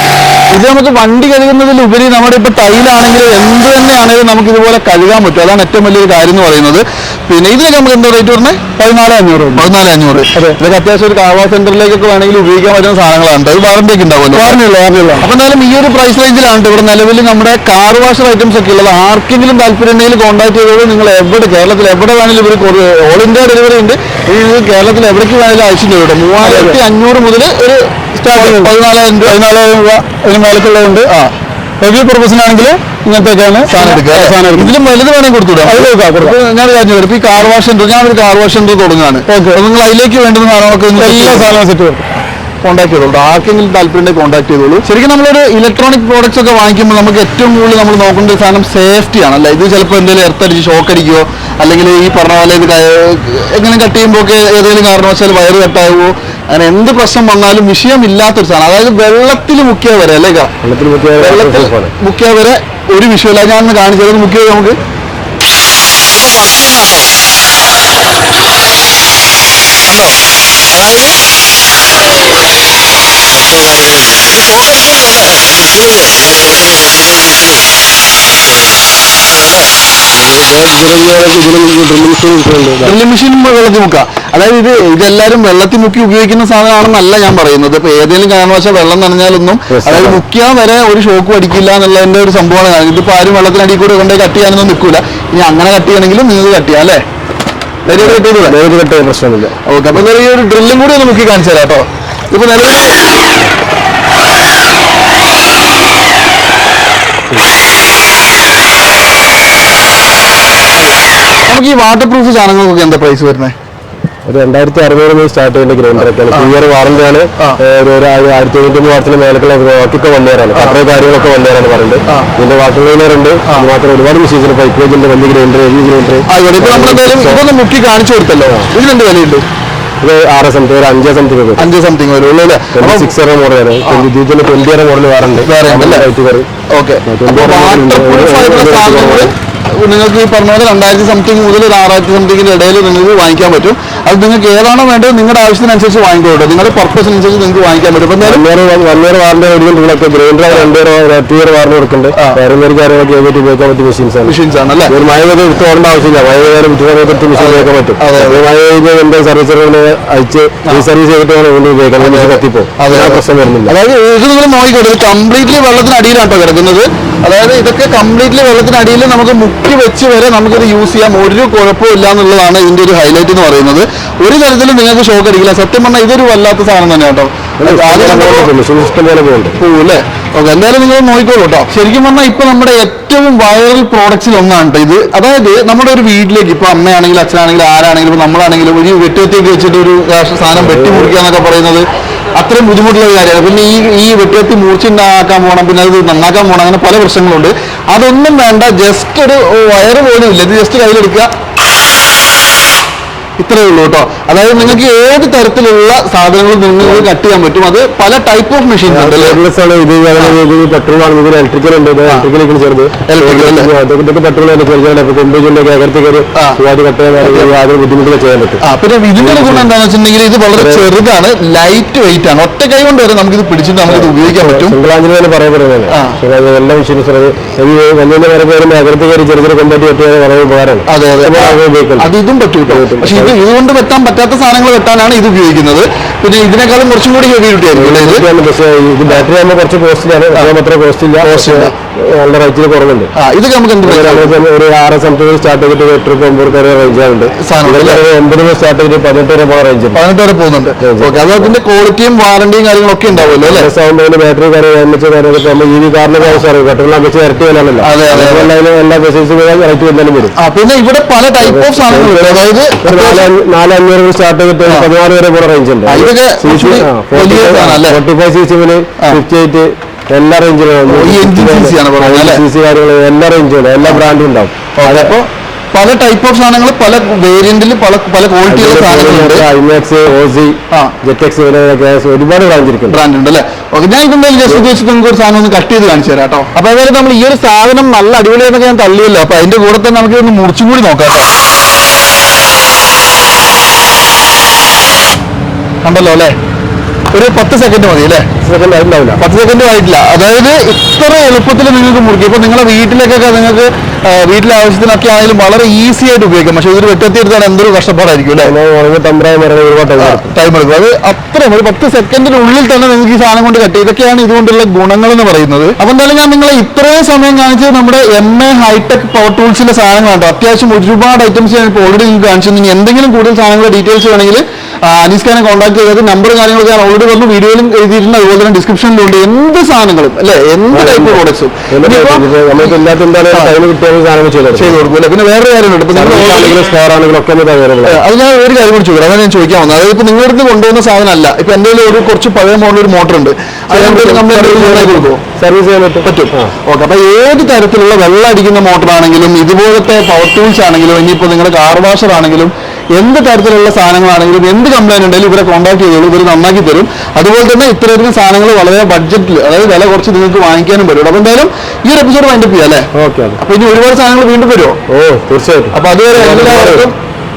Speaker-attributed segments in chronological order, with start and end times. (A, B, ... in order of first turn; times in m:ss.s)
0:00.5-0:08.6 A
0:08.8-0:09.7 B
0:09.6-0:14.6 A
0:14.3-0:15.2 B
0:15.2-0:29.4 A
0:26.4-0:26.8 B
0:28.2-0:31.1 B
0:31.1-0:31.3 A
0:31.8-0:34.7 B
0:33.7-0:41.5 A
0:35.6-0:36.4 B
0:39.3-0:39.6 B
0:41.0-0:42.0 B
0:42.6-1:00.5 A
1:00.6-1:01.9 C
1:01.2-1:04.8 A
1:06.1-1:07.1 A
1:09.9-1:10.2 A
1:10.7-1:11.2 A
1:13.2-1:14.4 C
1:14.3-1:15.4 A
1:15.2-1:18.8 C
1:19.3-1:19.7 A
1:20.1-1:23.0 C
1:22.8-1:37.0 A
1:29.7-1:30.2 C
1:37.8-1:38.6 A
1:37.9-1:39.6 C
1:39.6-1:43.0 A
1:51.5-1:53.5 A
1:54.2-2:07.4 C
2:06.3-2:09.4 A
2:10.0-2:11.7 C
2:11.6-2:13.2 A
2:12.7-2:16.5 C
2:15.4-2:16.1 A
2:16.7-2:28.4 A
2:17.0-2:19.3 C
2:28.2-2:34.4 C
2:34.2-2:34.9 A
2:34.9-2:43.7 C
2:37.3-2:38.4 A
2:42.0-2:58.5 A
2:57.6-2:59.6 C
2:59.6-3:21.3 A
3:10.5-3:11.1 C
3:23.4-3:29.4 A
3:28.9-3:38.6 C
3:33.0-3:33.7 A
3:37.2-3:37.5 A
3:38.6-3:44.8 A
3:39.2-3:39.7 C
3:40.5-3:40.8 C
3:43.8-3:52.1 C
3:45.9-3:46.2 A
3:50.9-3:58.3 A
3:52.7-3:53.4 C
3:57.7-4:03.1 C
4:01.2-4:01.7 A
4:03.1-4:04.4 A
4:03.8-4:10.0 C
4:07.4-4:08.0 A
4:09.9-4:13.7 A
4:10.8-4:11.5 C
4:13.2-4:20.3 C
4:17.8-4:18.5 A
4:20.4-4:23.3 A
4:21.4-4:35.1 C
4:24.6-4:24.9 A
4:25.9-4:28.0 A
4:30.9-4:32.4 A
4:34.8-4:39.4 A
4:38.5-4:43.0 C
4:42.9-4:51.3 A
4:55.8-4:56.3 A
4:57.1-4:58.3 A
4:58.4-4:59.2 C
4:59.2-5:08.5 A
5:08.4-5:10.3 C
5:10.0-5:32.2 A
5:30.7-5:34.8 C
5:34.5-5:36.6 A
5:35.9-5:38.0 C
5:37.8-5:45.2 A
5:43.7-5:46.5 C
5:46.0-6:02.9 A
6:02.9-6:03.4 C
6:03.4-6:04.8 A
6:04.9-6:06.9 C
6:05.7-6:07.0 A